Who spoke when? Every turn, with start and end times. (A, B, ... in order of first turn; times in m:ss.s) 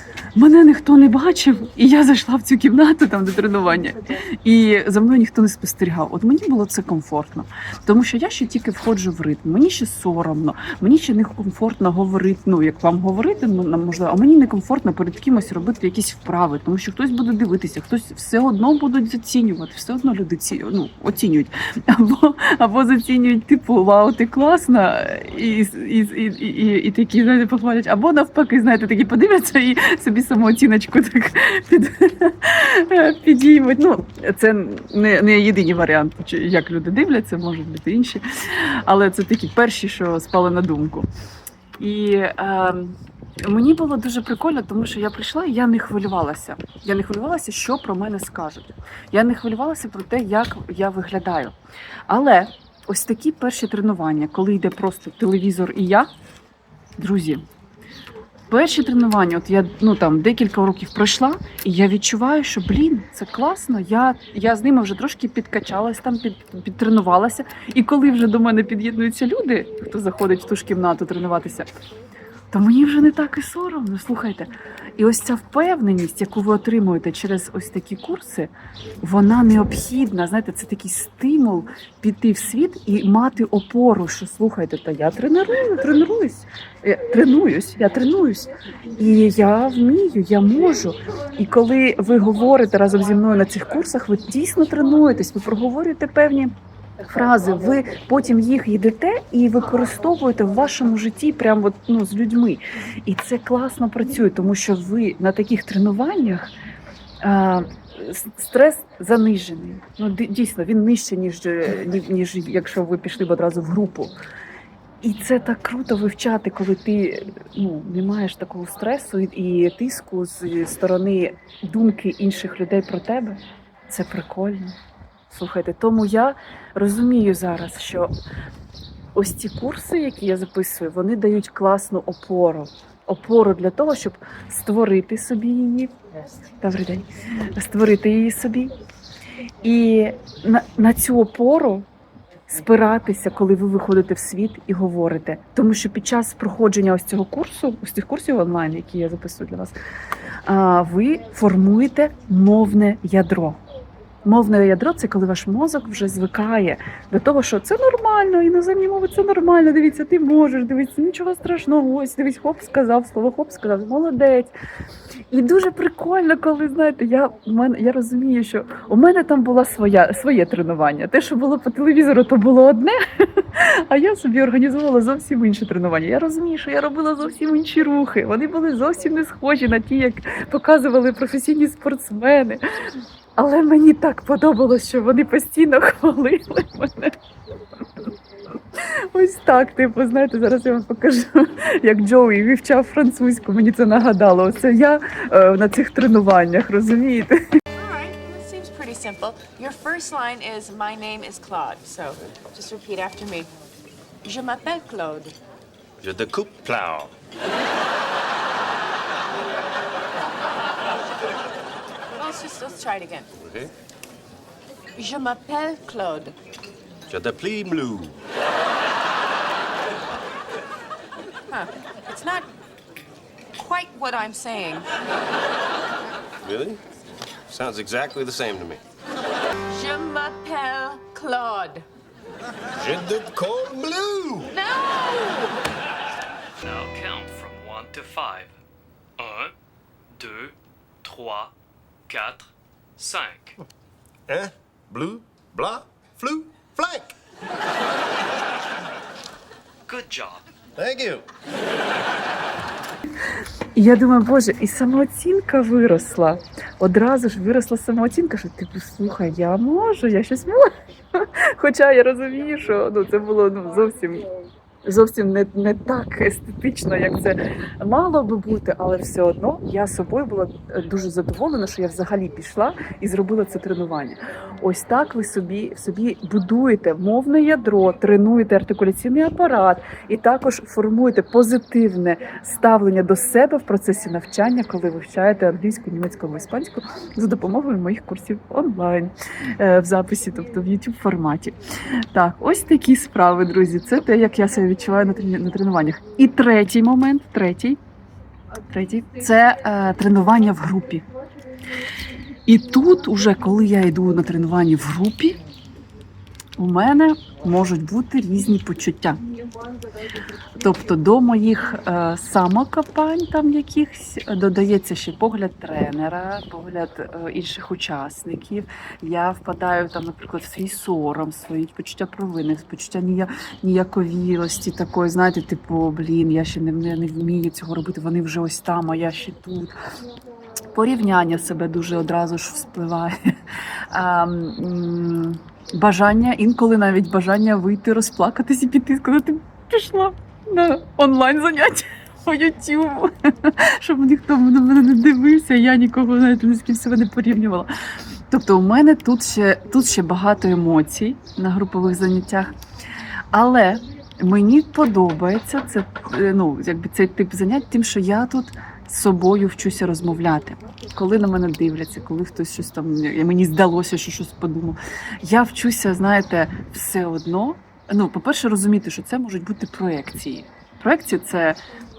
0:00.4-0:41.1 A
0:41.8-0:51.6 A
0:52.1-0:56.1 A
0:57.0-0:57.4 A
0:58.5-1:11.7 A
1:12.5-1:46.5 A
1:47.2-1:54.2 A
1:55.0-2:04.8 A
2:05.3-2:08.1 A
2:09.2-2:15.9 A
2:16.6-2:18.7 A
2:19.6-2:21.9 A
2:22.5-2:29.8 A
2:30.4-2:33.6 A
2:34.2-2:44.6 A
2:45.3-3:02.6 A
3:03.4-3:07.2 A
3:08.8-3:17.4 A
3:17.7-3:23.5 B
3:24.2-3:25.4 B
3:26.0-3:27.1 C
3:32.1-3:33.3 B
3:33.4-3:33.7 C
3:35.0-3:36.4 B
3:37.1-3:38.2 C
3:41.5-3:42.5 B
3:43.6-3:44.9 B
3:46.4-3:46.8 C
3:47.5-3:48.8 C
3:49.7-3:51.9 B
3:52.8-3:54.6 C
3:54.5-3:55.6 B
3:56.6-3:58.5 D
3:59.2-3:59.5 D
4:00.2-4:01.5 D
4:02.1-4:03.6 D
4:04.3-4:07.1 C
4:09.9-4:10.4 D
4:10.8-4:11.2 C
4:13.8-4:24.3 A
4:24.8-4:57.8 A
4:58.7-5:01.0 A
5:02.5-5:05.4 A
5:06.6-5:09.2 A
5:10.6-5:29.8 A
5:30.7-5:33.3 A
5:33.9-5:47.7 A
5:48.3-5:52.5 A
5:53.3-6:11.6 A